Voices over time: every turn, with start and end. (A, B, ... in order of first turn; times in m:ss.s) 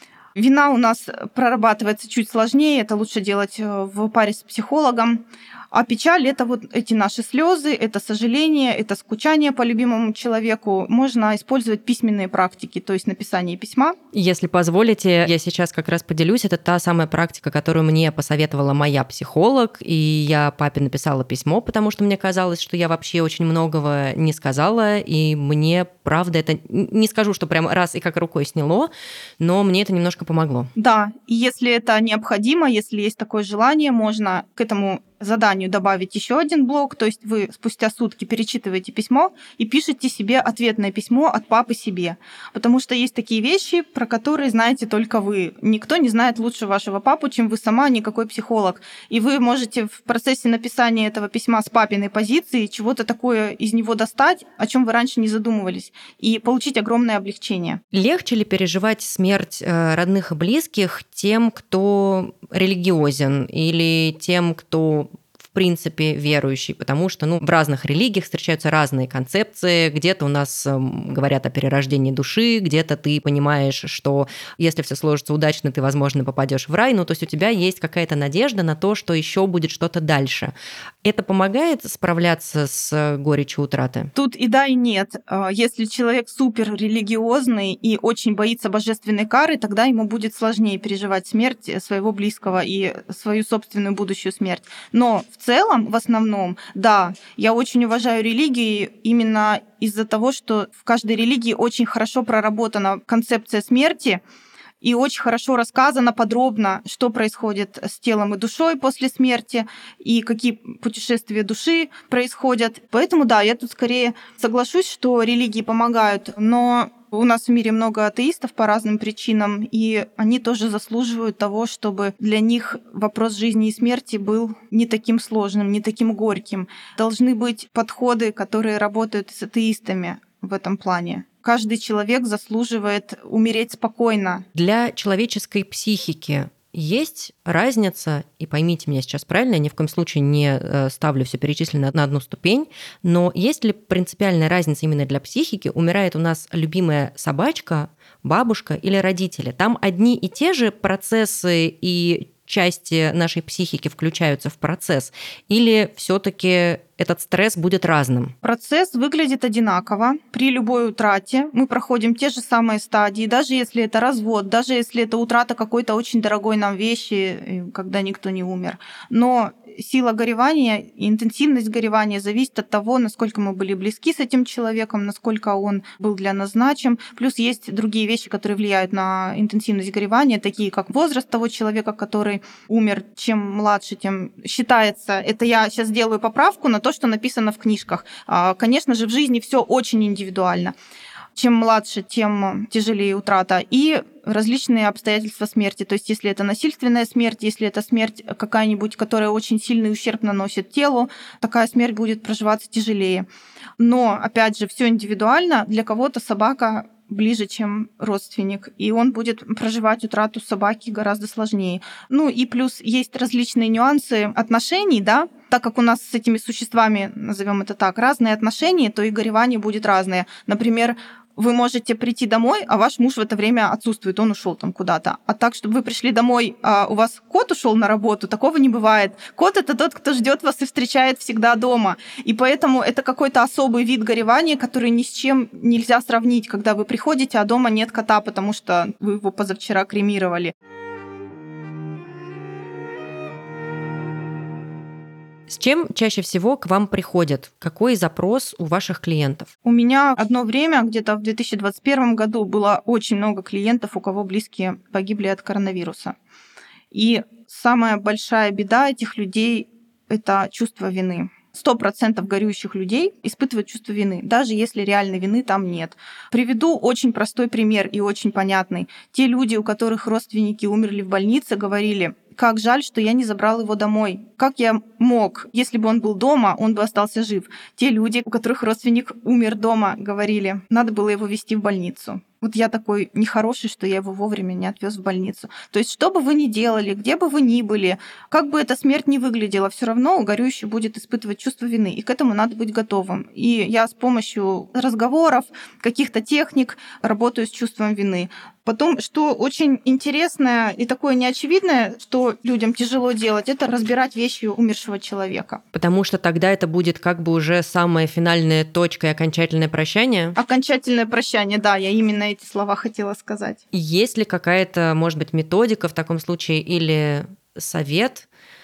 0:00.4-0:13.9 A
0:14.1-0:30.7 B
0:30.8-0:57.8 A
0:57.9-1:20.5 B
1:21.0-1:24.1 B
1:24.1-1:44.2 A
1:44.8-2:14.4 A
2:14.5-2:38.3 B
2:38.4-3:10.7 A
3:11.3-3:23.2 A
3:23.8-4:00.5 A
4:05.5-4:09.5 B
4:09.6-4:16.2 A
4:16.9-5:05.6 A
5:05.7-5:10.4 B
5:10.4-5:13.6 A
5:13.7-5:18.2 B